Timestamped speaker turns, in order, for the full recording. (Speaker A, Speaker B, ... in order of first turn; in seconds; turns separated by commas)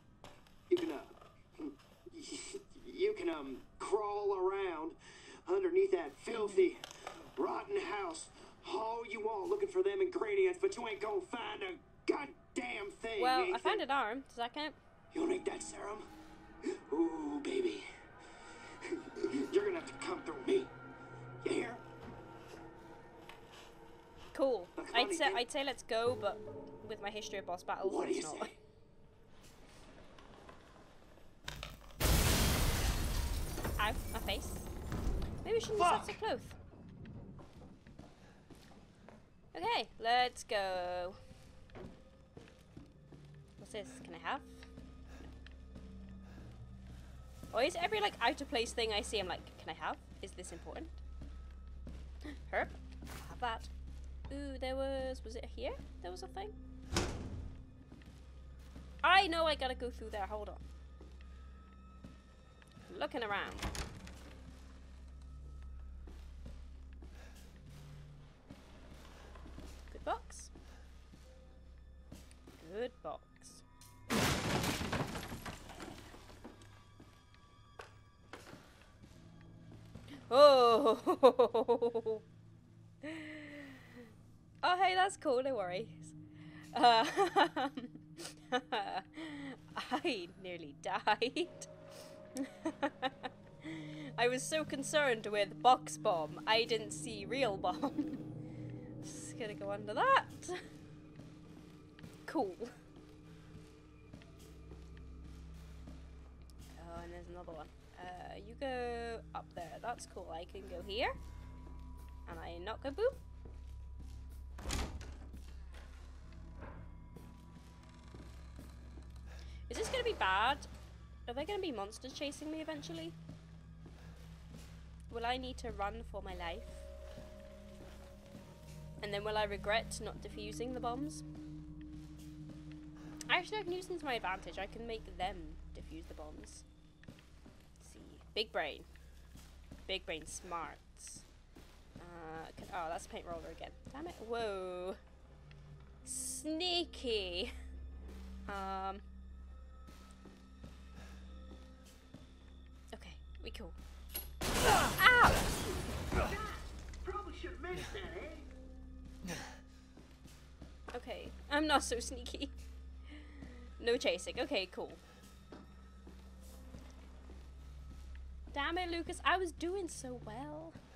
Speaker A: 0.7-6.8, Speaker B: 6.3-6.7, Speaker A: 7.3-13.8, Speaker B: 13.2-14.8, Speaker A: 15.1-16.1, Speaker A: 16.7-17.9, Speaker A: 18.8-20.7, Speaker A: 21.4-21.8, Speaker B: 24.3-28.5, Speaker A: 24.8-25.4, Speaker A: 27.8-28.6, Speaker B: 33.8-34.7, Speaker B: 35.4-36.6, Speaker A: 35.8-36.2, Speaker B: 39.5-41.2, Speaker B: 43.6-44.6, Speaker B: 47.5-50.9, Speaker B: 52.3-53.7, Speaker B: 54.3-56.6, Speaker B: 59.0-60.6, Speaker B: 62.9-63.7, Speaker B: 69.9-70.5, Speaker B: 72.6-73.6, Speaker B: 80.3-82.2, Speaker B: 83.0-83.8, Speaker B: 84.6-86.2, Speaker B: 86.7-91.7, Speaker B: 92.4-98.2, Speaker B: 99.0-100.6, Speaker B: 102.3-102.8, Speaker B: 106.8-111.2, Speaker B: 112.3-113.2, Speaker B: 119.7-120.7, Speaker B: 121.3-123.2, Speaker B: 125.1-126.9, Speaker B: 129.0-131.2, Speaker B: 133.3-136.6, Speaker B: 137.8-138.9, Speaker B: 139.9-141.2, Speaker B: 142.0-145.0, Speaker B: 146.1-147.5, Speaker B: 148.5-149.0, Speaker B: 152.9-153.8, Speaker B: 155.0-155.5, Speaker A: 156.2-158.5, Speaker B: 160.9-162.6, Speaker B: 163.1-165.0, Speaker B: 168.5-170.8